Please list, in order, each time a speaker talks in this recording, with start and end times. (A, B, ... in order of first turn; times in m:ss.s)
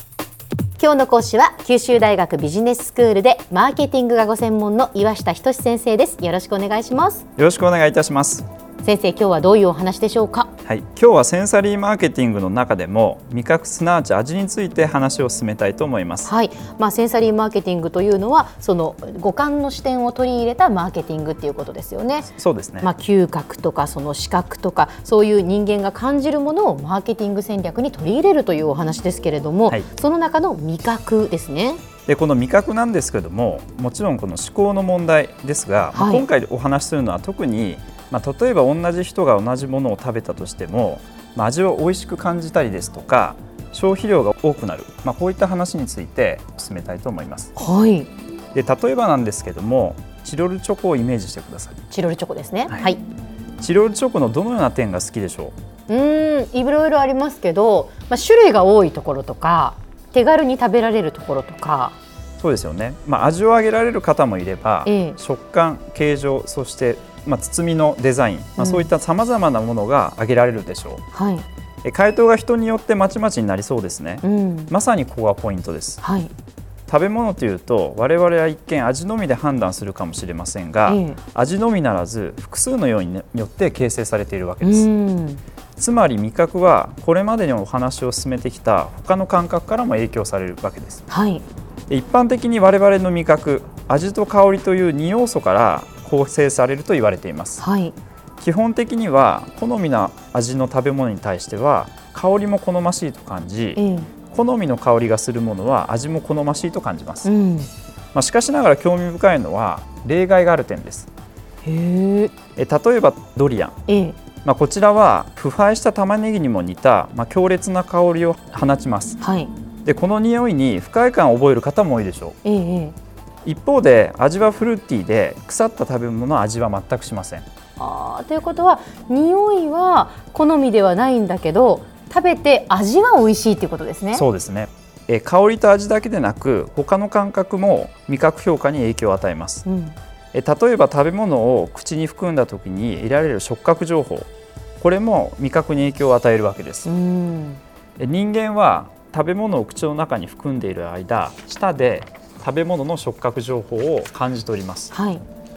0:00.8-0:07.2 A
0:07.4-0:08.4 B
0:08.8-0:10.5 A
0:10.6-0:16.3 B
0:16.2-0:31.8 A
0:22.4-0:22.9 B
0:32.1-0:47.5 B
0:35.9-0:36.2 A
0:47.6-0:48.1 A
0:48.5-0:51.8 B
0:51.9-0:53.0 A
0:53.6-0:55.5 B
0:55.9-1:02.0 A
1:02.4-1:11.0 B
1:04.8-1:05.2 A
1:08.6-1:08.9 A
1:11.1-1:11.4 A
1:11.8-1:16.0 B
1:14.2-1:14.7 A
1:16.0-1:16.3 A
1:16.9-1:24.9 B
1:20.9-1:21.2 A
1:24.6-1:25.4 A
1:25.8-1:31.0 B
1:31.1-1:31.4 A
1:31.9-1:37.6 B
1:37.6-1:37.9 A
1:38.4-1:47.3 B
1:43.8-1:44.1 A
1:47.2-1:47.7 A
1:48.1-1:51.1 B
1:51.6-1:52.3 A
1:52.6-1:53.8 B
1:53.9-1:54.2 A
1:54.4-1:59.2 B
1:59.2-1:59.5 A
1:59.8-2:02.4 B
2:02.4-2:02.9 A
2:03.4-2:07.4 B
2:07.8-2:14.2 A
2:14.1-2:19.6 B
2:19.6-2:20.0 A
2:20.3-2:24.3 B
2:24.8-2:26.9 B
2:26.8-2:27.6 A
2:28.0-2:34.9 B
2:34.9-2:35.2 A